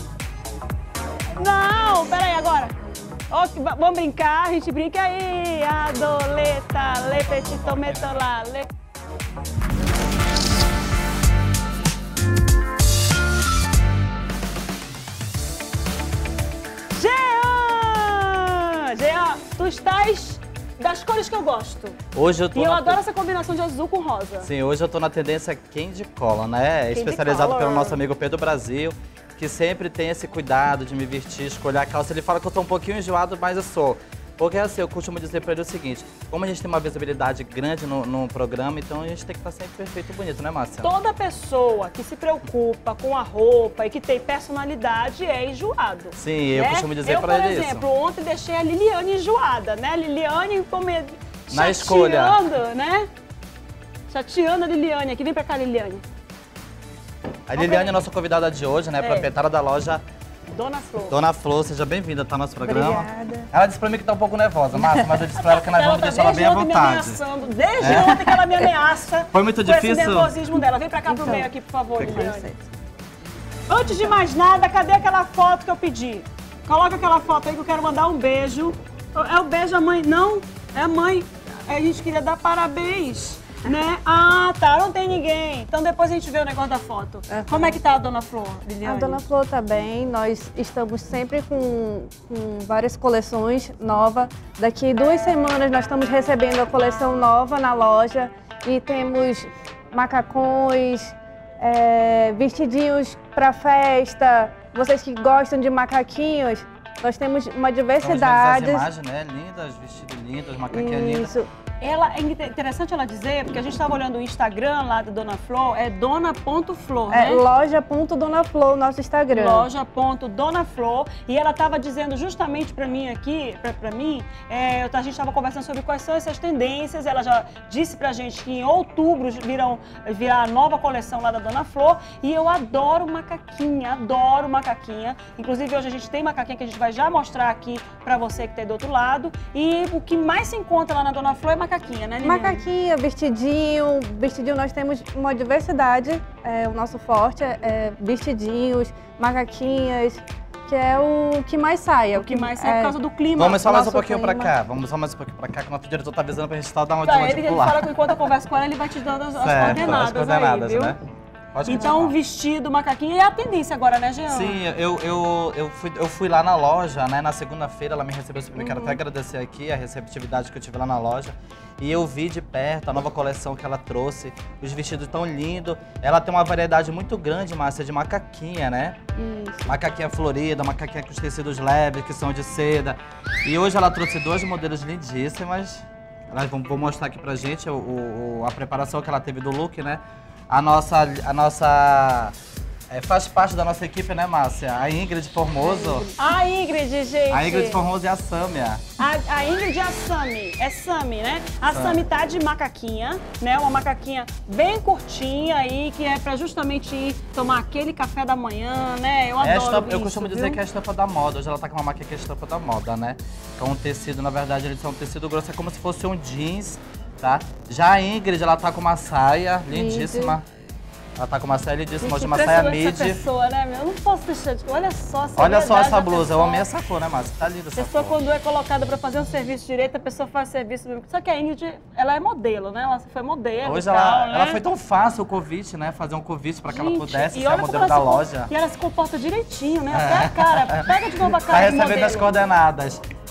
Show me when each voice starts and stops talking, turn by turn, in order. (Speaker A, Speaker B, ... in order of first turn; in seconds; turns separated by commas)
Speaker A: 1.3-2.7, Speaker A: 3.3-8.7, Speaker B: 7.3-8.2, Speaker A: 16.9-22.0, Speaker B: 22.1-23.0, Speaker A: 22.5-24.5, Speaker B: 24.4-40.9, Speaker A: 26.9-28.0, Speaker A: 40.8-53.1, Speaker B: 46.2-47.8, Speaker B: 51.5-52.4, Speaker A: 54.1-56.0, Speaker B: 57.5-60.0, Speaker A: 57.5-57.9, Speaker A: 59.0-59.3, Speaker A: 60.5-61.1, Speaker B: 61.1-67.2, Speaker C: 62.6-63.5, Speaker A: 64.8-72.4, Speaker B: 67.8-68.2, Speaker B: 69.3-70.3, Speaker C: 71.0-72.7, Speaker A: 73.7-89.2, Speaker C: 87.3-87.8, Speaker C: 88.8-108.9, Speaker B: 108.0-111.3, Speaker C: 110.7-111.5, Speaker A: 111.8-117.4, Speaker C: 117.1-119.7, Speaker A: 119.3-142.6, Speaker C: 142.2-152.9, Speaker A: 152.1-153.9, Speaker B: 153.3-157.9, Speaker C: 153.7-154.5, Speaker A: 157.0-161.0, Speaker B: 159.4-161.0, Speaker C: 159.6-159.9, Speaker B: 161.5-162.1, Speaker A: 161.6-164.6, Speaker B: 164.3-179.0, Speaker C: 168.6-169.0, Speaker C: 179.2-179.7, Speaker B: 179.7-192.3, Speaker B: 192.9-196.1, Speaker C: 195.6-196.1, Speaker A: 196.1-197.8, Speaker B: 197.3-198.8, Speaker A: 199.0-210.6, Speaker B: 201.7-202.0, Speaker B: 209.4-220.4, Speaker C: 219.7-220.4, Speaker B: 221.2-223.2, Speaker A: 222.0-226.7, Speaker B: 225.3-228.2, Speaker A: 227.7-234.6, Speaker B: 233.6-238.5, Speaker A: 236.6-242.3, Speaker B: 239.9-243.0